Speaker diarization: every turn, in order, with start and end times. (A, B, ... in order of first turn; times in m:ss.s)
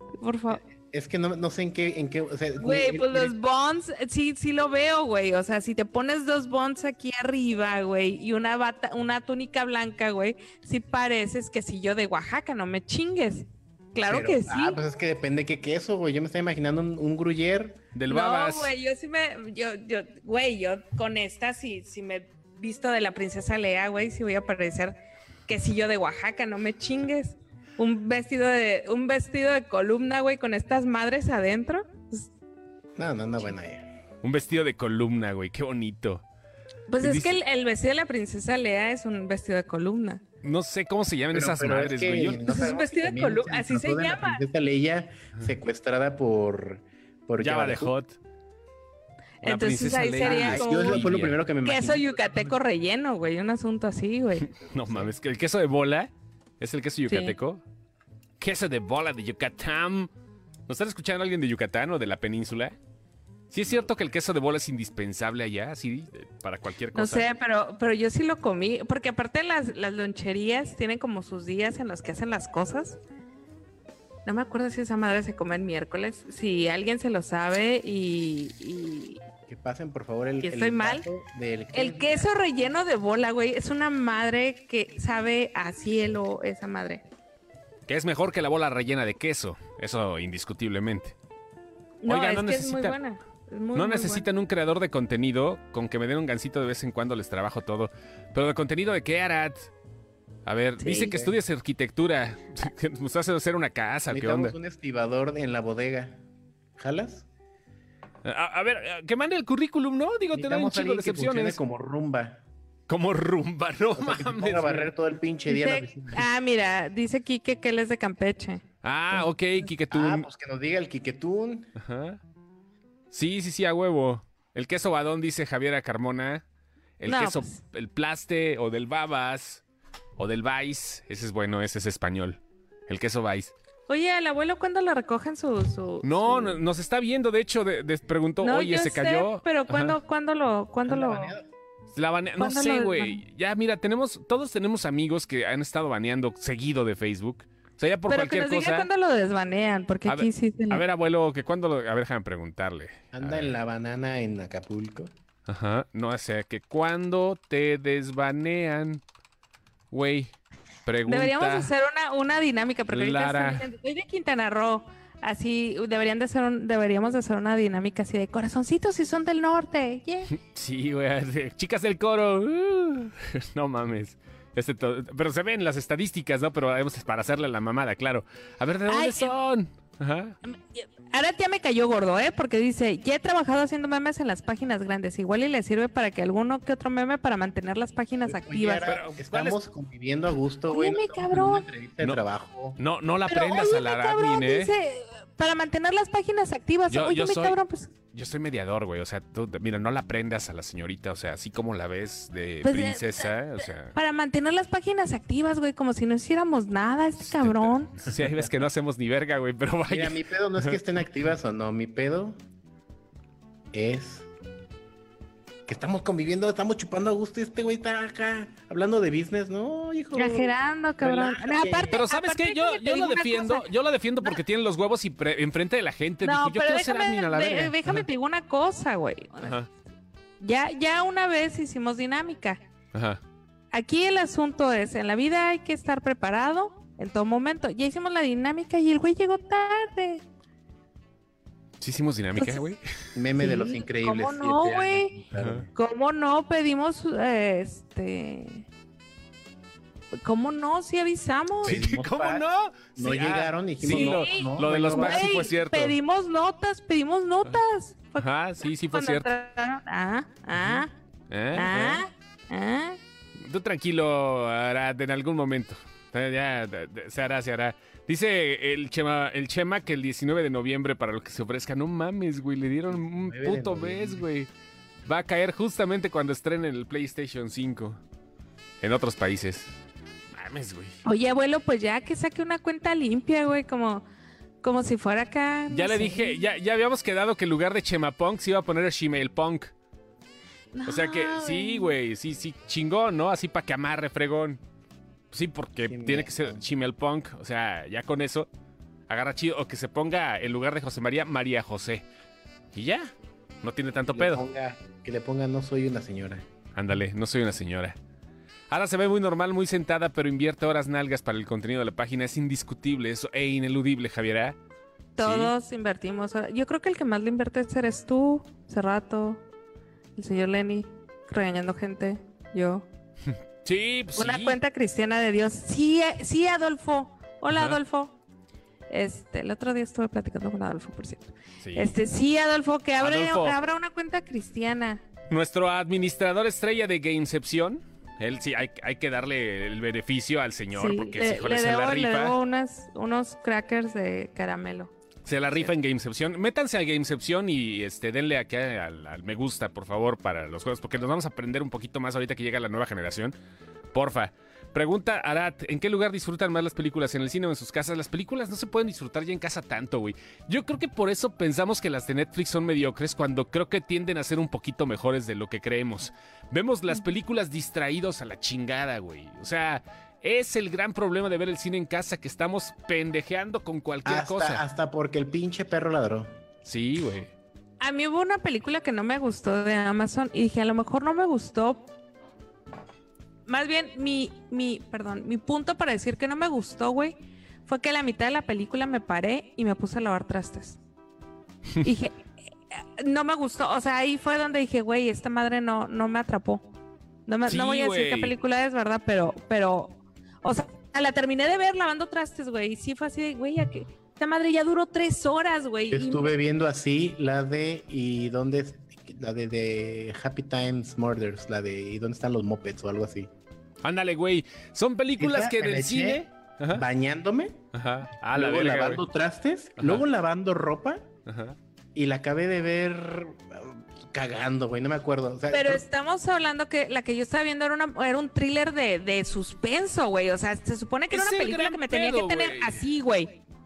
0:00.2-0:00.6 A
0:00.5-0:03.3 B
0:02.6-0:14.8 A
0:14.0-0:17.8 B
0:17.9-0:18.7 C
0:18.1-0:32.3 A
0:33.0-0:33.9 B
0:34.2-0:36.2 C
0:36.9-0:40.2 A
0:37.0-0:37.4 C
0:40.4-0:42.5 C
0:41.3-0:47.9 B
0:42.4-0:44.4 A
0:47.4-0:48.2 C
0:49.4-0:51.1 A
0:49.4-0:51.4 C
0:50.2-0:52.6 B
0:51.6-0:54.5 A
0:54.4-0:57.6 C
0:54.7-0:55.1 B
0:57.1-0:57.3 A
0:58.4-1:00.1 C
1:00.7-1:02.8 C
1:03.5-1:07.3 C
1:06.9-1:13.0 A
1:14.2-1:19.2 A
1:19.5-1:22.3 B
1:20.4-1:21.0 A
1:21.7-1:27.0 A
1:27.9-1:31.2 C
1:32.0-1:34.2 A
1:32.0-1:33.0 C
1:33.7-1:39.7 C
1:40.4-1:44.5 C
1:40.8-1:41.2 A
1:44.1-1:46.2 B
1:46.8-1:47.2 B
1:48.2-1:51.6 C
1:50.3-1:52.4 B
1:52.9-1:54.9 C
1:54.0-1:56.2 B
1:55.5-1:59.2 A
1:58.8-2:00.2 C
1:59.9-2:01.7 B
2:01.8-2:02.2 C
2:03.1-2:06.4 C
2:07.0-2:09.6 C
2:07.0-2:07.6 A
2:10.2-2:13.5 C
2:13.9-2:16.6 A
2:16.0-2:20.0 C
2:18.4-2:21.3 A
2:20.8-2:21.5 B
2:21.9-2:28.9 C
2:22.4-2:23.2 A
2:28.1-2:30.8 A
2:30.0-2:33.6 C
2:33.1-2:35.1 B
2:35.5-2:39.0 C
2:39.9-2:40.3 C
2:40.8-2:41.7 C
2:41.0-2:50.3 A
2:42.9-2:43.7 C
2:50.3-3:00.4 C
2:58.9-2:59.3 A
3:00.4-3:08.9 A
3:08.2-3:12.8 B
3:08.8-3:09.6 C
3:10.7-3:11.6 A
3:12.8-3:14.7 C
3:13.3-3:17.9 A
3:16.9-3:17.6 C
3:18.1-3:23.9 C
3:22.6-3:28.1 A
3:27.2-3:30.8 C
3:29.9-3:32.4 B
3:33.7-3:34.3 B
3:35.7-3:42.0 B
3:40.1-3:43.7 A
3:41.9-3:48.0 C
3:46.2-3:49.6 A
3:49.4-3:49.7 C
3:50.4-3:52.6 A
3:52.9-3:53.2 C
3:53.7-4:00.2 A
4:01.8-4:02.9 C
4:02.4-4:02.6 A
4:03.1-4:05.7 B
4:03.4-4:05.2 A
4:05.4-4:05.6 C
4:05.7-4:08.6 A
4:10.2-4:11.8 A
4:11.6-4:15.4 B
4:11.6-4:16.0 C
4:13.8-4:20.9 A
4:18.2-4:19.3 C
4:20.5-4:22.0 C
4:21.5-4:23.0 A
4:23.4-4:34.5 C
4:32.9-4:34.2 B
4:35.0-4:38.0 C
4:38.8-4:39.8 C
4:40.3-4:41.0 C
4:41.0-4:44.0 A
4:44.6-4:46.4 A
4:45.7-4:49.7 C
4:50.7-4:52.0 A
4:50.8-4:54.6 C
4:55.3-4:58.5 C
4:55.9-4:56.6 B
4:59.1-5:02.0 C
5:02.7-5:03.1 C
5:03.6-5:04.4 C
5:04.1-5:06.4 B
5:06.7-5:08.0 C
5:08.7-5:14.6 C
5:15.2-5:19.4 A
5:15.2-5:15.5 C
5:20.2-5:22.8 A
5:23.6-5:24.6 C
5:24.2-5:28.1 A
5:27.5-5:27.8 C
5:28.9-5:35.0 A
5:31.6-5:31.9 C
5:33.0-5:33.6 C
5:35.3-5:42.4 C
5:40.7-5:44.9 A
5:45.2-5:53.3 C
5:53.9-6:14.6 C
6:14.0-6:16.3 B
6:16.6-6:17.3 C
6:17.8-6:21.9 A
6:23.4-6:30.8 A
6:31.8-6:32.2 A
6:32.7-6:36.7 A
6:37.3-6:46.3 A
6:37.4-6:38.3 C
6:45.9-6:53.3 B
6:53.8-6:56.8 C
6:55.2-6:57.6 B
6:57.7-6:59.0 C
6:58.3-7:01.1 B
6:59.8-7:00.0 C
7:01.2-7:01.6 C
7:01.9-7:05.8 B
7:05.5-7:13.4 A
7:11.1-7:12.8 C